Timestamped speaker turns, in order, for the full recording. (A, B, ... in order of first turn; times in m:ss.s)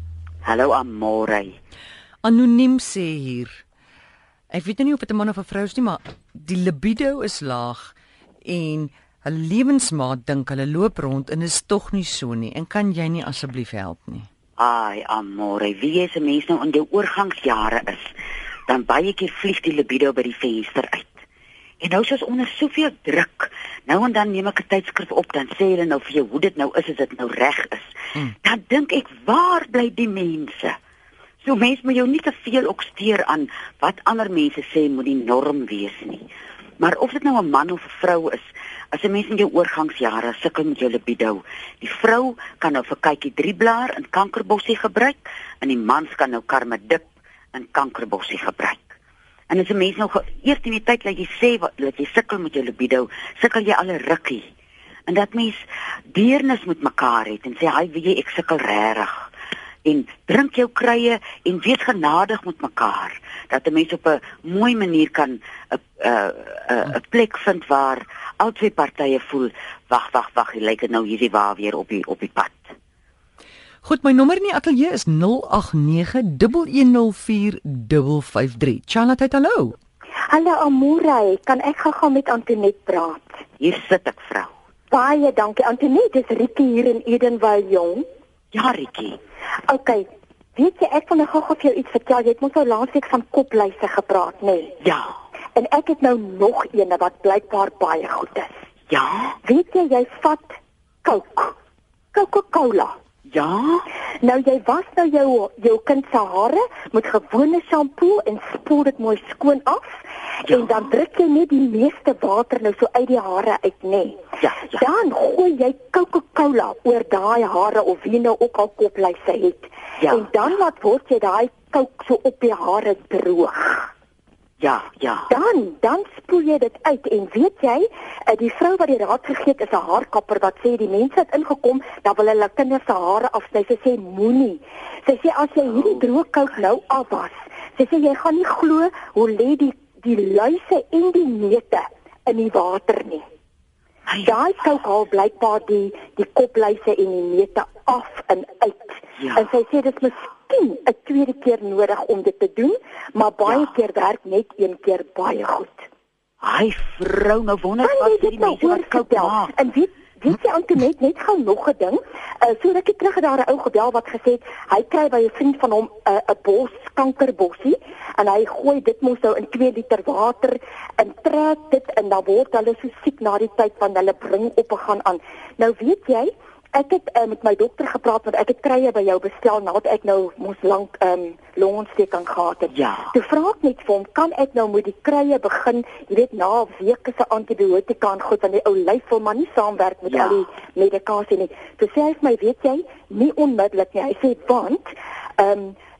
0:00.4-0:01.6 A
0:02.2-0:03.6 B
0:04.5-0:14.3 B
0:14.6-0:18.1 A
0:18.7-0:21.2 A
0:21.8-0:30.7 A
0:31.4-0:36.3 A
0:36.8-0:49.0 A
0:49.5-0:54.4 A
0:55.1-0:59.3 A
0:59.8-1:12.7 A
1:13.8-1:19.7 B
1:20.3-1:23.4 C
1:23.6-1:24.5 A
1:24.9-1:28.0 C
1:28.5-1:29.2 A
1:29.7-1:34.7 C
1:34.8-1:35.1 A
1:35.6-1:38.5 C
1:38.9-1:39.4 A
1:39.4-1:41.5 C
1:42.1-1:42.9 C
1:43.3-1:43.8 A
1:44.2-1:49.8 C
1:50.4-1:54.2 C
1:50.5-1:50.8 A
1:54.4-1:54.8 A
1:54.7-2:03.9 C
2:00.0-2:00.4 A
2:04.6-2:05.3 A
2:05.3-2:23.2 C
2:24.1-2:24.4 A
2:24.2-2:35.8 C
2:29.2-2:29.5 A
2:36.4-2:39.6 A
2:37.8-3:15.7 C
3:02.7-3:03.1 A
3:10.1-3:10.5 A